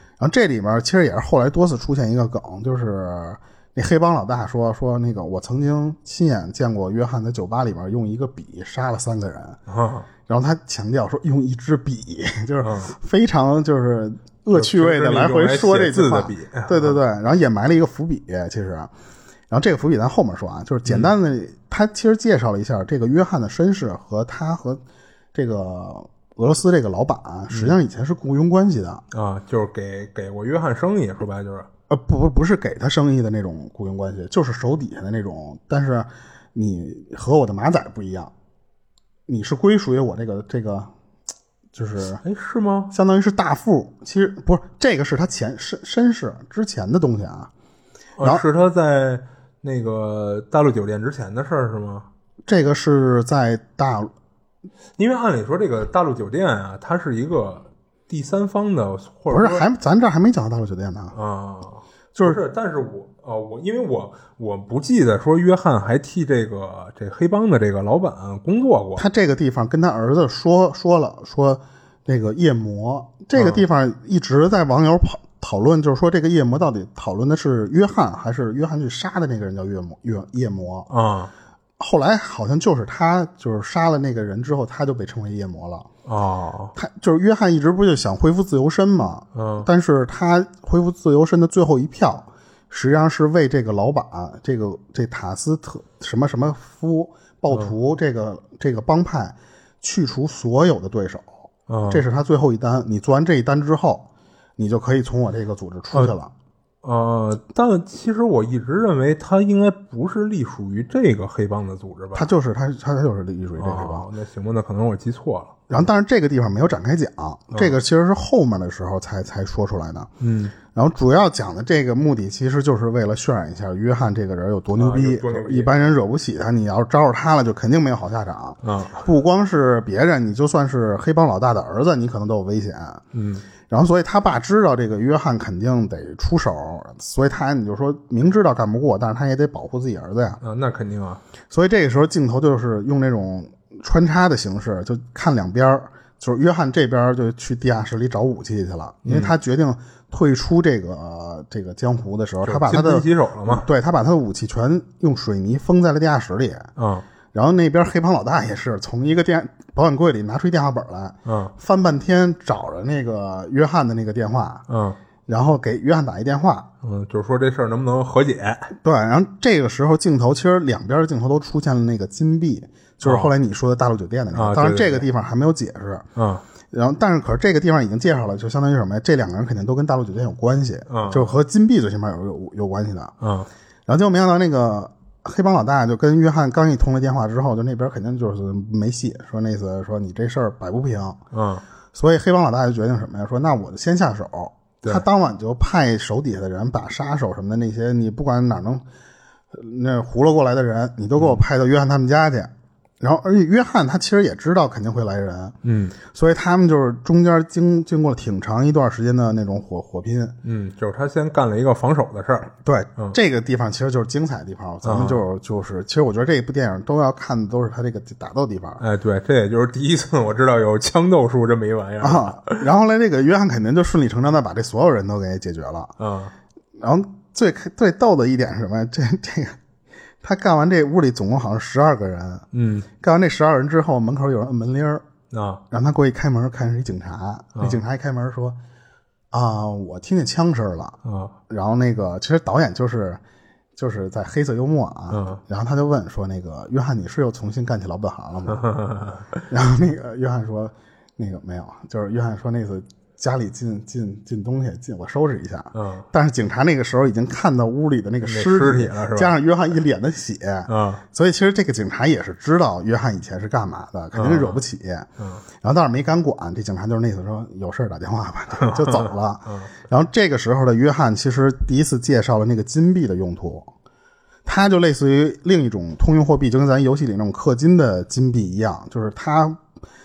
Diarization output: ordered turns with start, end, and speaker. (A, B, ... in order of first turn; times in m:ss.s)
0:00.2-0:09.6 A
0:09.7-0:10.1 B
0:10.3-0:18.9 A
0:12.6-0:12.9 B
0:14.5-0:17.0 B
0:19.5-0:24.8 A
0:20.8-0:21.1 B
0:25.3-0:29.0 A
0:27.5-0:27.8 B
0:29.1-0:31.7 B
0:31.9-0:38.3 A
0:39.3-0:40.9 A
0:41.7-0:42.2 A
0:42.2-0:42.9 B
0:42.9-0:47.5 A
0:48.2-0:52.1 B
0:52.5-0:54.1 A
0:55.0-0:59.6 B
0:59.3-1:01.2 A
1:01.1-1:09.0 B
1:09.0-1:20.9 A
1:13.3-1:13.6 B
1:20.9-1:21.3 B
1:21.8-1:25.9 A
1:26.0-1:26.7 B
1:26.8-1:44.1 A
1:29.3-1:29.7 B
1:41.7-1:42.0 B
1:44.6-1:46.3 A
1:46.8-1:52.3 B
1:52.1-1:54.1 A
1:53.6-1:55.8 B
1:55.7-2:00.1 A
2:00.2-2:00.5 B
2:00.7-2:13.0 A
2:04.7-2:05.8 B
2:08.6-2:09.0 B
2:13.1-2:13.4 B
2:13.7-2:20.4 A
2:20.4-2:21.2 B
2:21.5-2:36.7 A
2:29.0-2:29.3 B
2:32.4-2:33.7 B
2:36.8-2:37.1 B
2:37.3-2:44.6 A
2:41.2-2:41.5 B
2:44.7-2:45.0 B
2:45.3-2:46.7 A
2:46.8-2:48.7 B
2:48.8-2:56.0 A
2:53.0-2:53.3 B
2:54.3-2:55.0 B
2:56.1-2:56.4 B
2:56.7-3:03.1 A
3:00.9-3:01.3 B
3:03.2-3:03.5 B
3:03.9-3:11.2 A
3:11.3-3:11.6 B
3:11.9-3:18.8 A
3:19.5-3:30.3 A
3:21.2-3:21.4 B
3:25.6-3:26.0 B
3:30.4-3:33.2 B
3:32.6-3:38.8 A
3:34.8-3:35.2 B
3:38.8-3:42.6 B
3:42.0-3:45.9 A
3:46.0-3:46.3 B
3:46.8-3:49.6 A
3:50.2-3:52.4 A
3:52.5-3:52.9 B
3:53.0-3:55.0 A
3:55.3-3:55.6 B
3:55.7-3:58.6 A
3:57.6-3:57.8 B
3:59.3-4:01.0 A
4:01.0-4:01.3 B
4:01.5-4:03.2 A
4:03.8-4:08.6 A
4:05.1-4:05.4 B
4:08.5-4:09.4 B
4:09.5-4:25.1 A
4:15.7-4:16.0 B
4:18.2-4:19.3 B
4:20.7-4:21.0 B
4:24.1-4:24.6 B
4:25.2-4:25.4 B
4:25.6-4:33.7 A
4:28.7-4:29.7 B
4:34.4-4:39.6 A